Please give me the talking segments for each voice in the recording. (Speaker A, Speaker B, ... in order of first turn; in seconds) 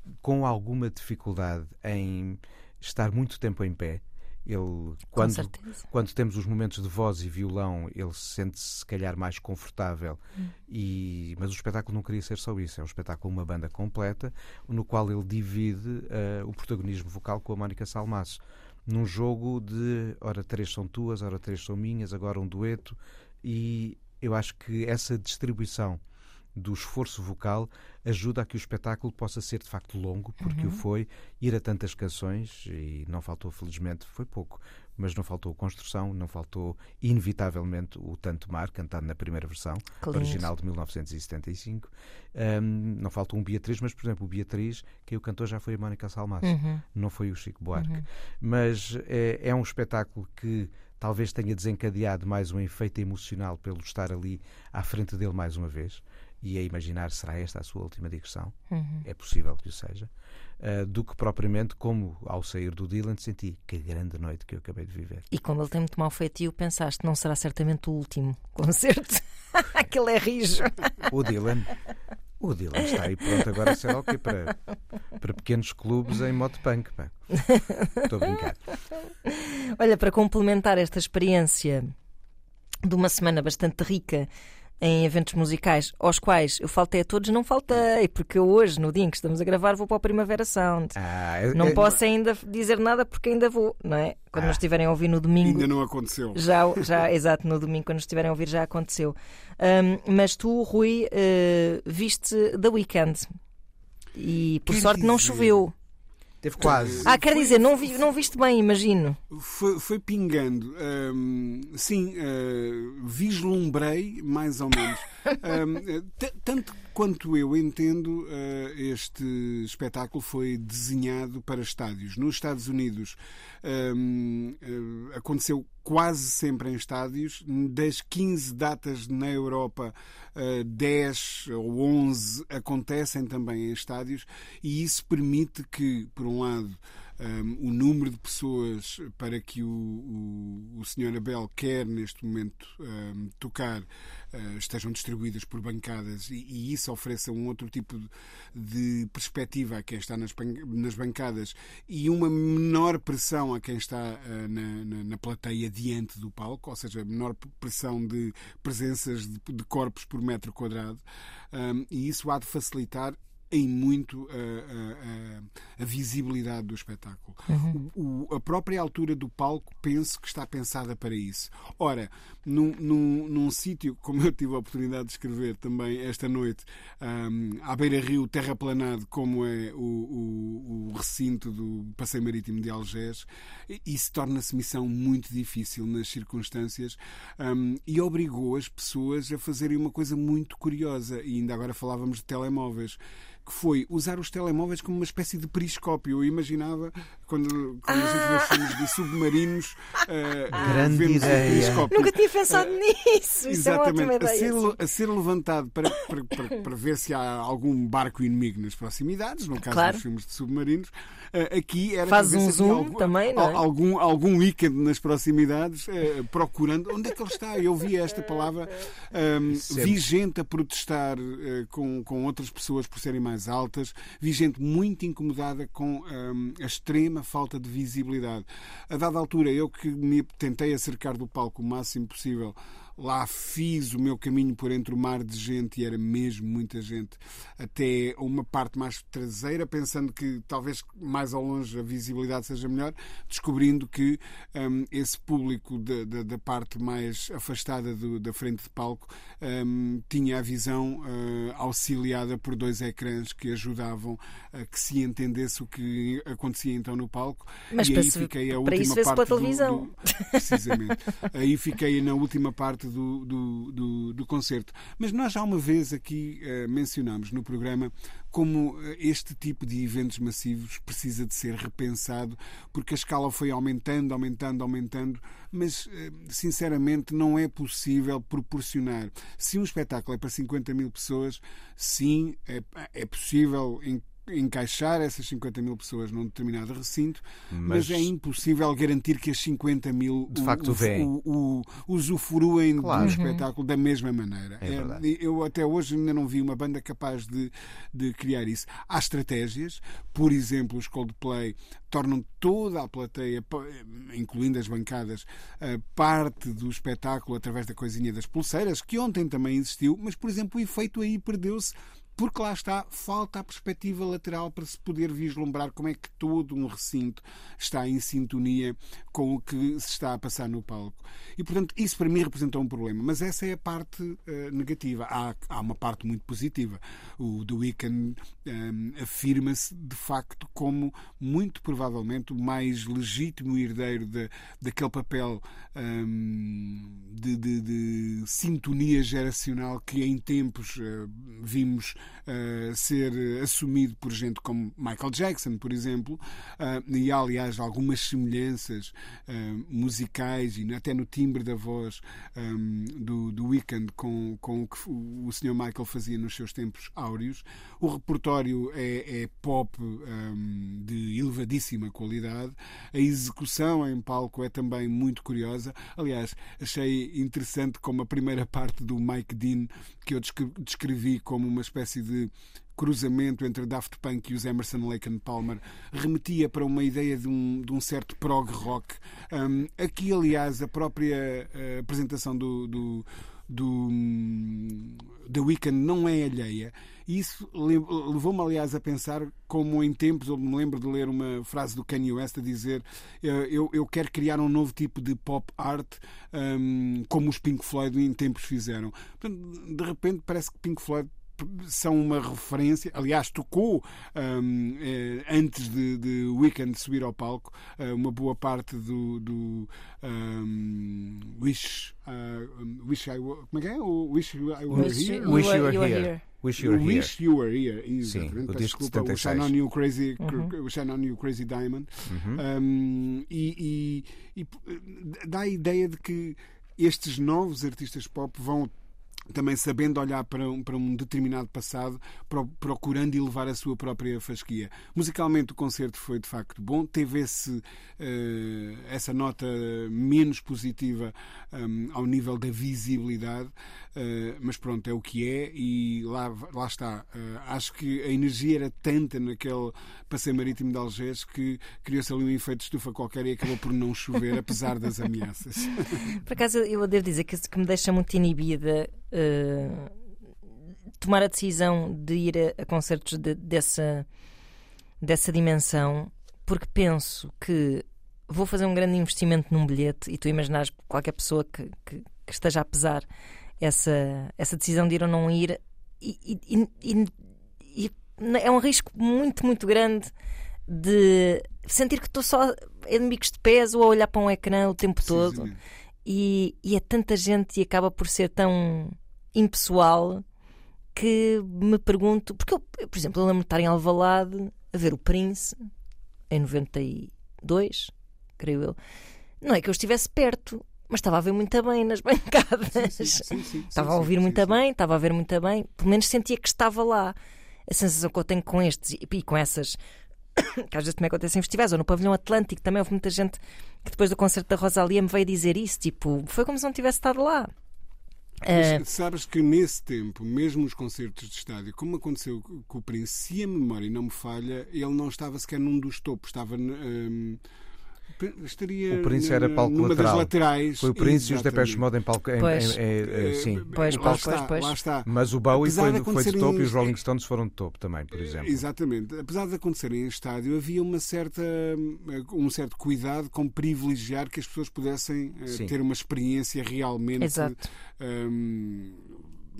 Speaker A: 0.2-26.0, 26.5-65.2, 71.1-71.7, 72.4-74.6, 75.2-77.3, 78.0-78.7, 91.0-91.9, 106.4-107.1, 200.5-201.9, 219.5-220.0, 287.5-288.1, 290.3-291.1, 292.8-293.2, 294.6-295.0, 414.7-417.1, 418.0-419.5, 422.1-422.4, 528.9-534.3, 535.0-538.6
Speaker B: 5.2-5.8, 30.4-30.8, 40.0-40.4, 46.4-46.8, 47.7-48.0, 58.7-59.0, 65.3-71.1, 73.3-73.7, 77.3-78.3, 79.2-81.9, 82.8-84.3, 84.8-91.0, 91.5-95.7, 96.3-103.3, 104.2-105.7, 107.0-109.2, 167.5-167.8, 197.9-198.8, 201.2-204.7, 209.7-210.0, 212.1-213.6, 257.7-260.4, 293.0-293.4, 414.7-416.2, 420.2-420.5, 456.1-459.9, 461.0-464.1, 465.0-473.1, 473.6-477.1, 477.7-480.1, 480.7-485.5, 486.0-490.2, 490.9-495.7, 496.3-498.8, 499.4-507.1, 507.7-509.8, 510.4-517.5, 518.4-518.8, 532.4-532.8, 533.7-534.7, 547.2-547.6
Speaker C: 91.7-92.0, 95.4-96.8, 104.7-105.6, 106.6-108.0, 109.3-202.8, 203.4-415.6, 416.6-428.7, 429.3-456.2, 485.1-485.6, 502.7-504.6, 518.5-527.4, 528.2-531.8, 533.0-536.9, 538.1-549.2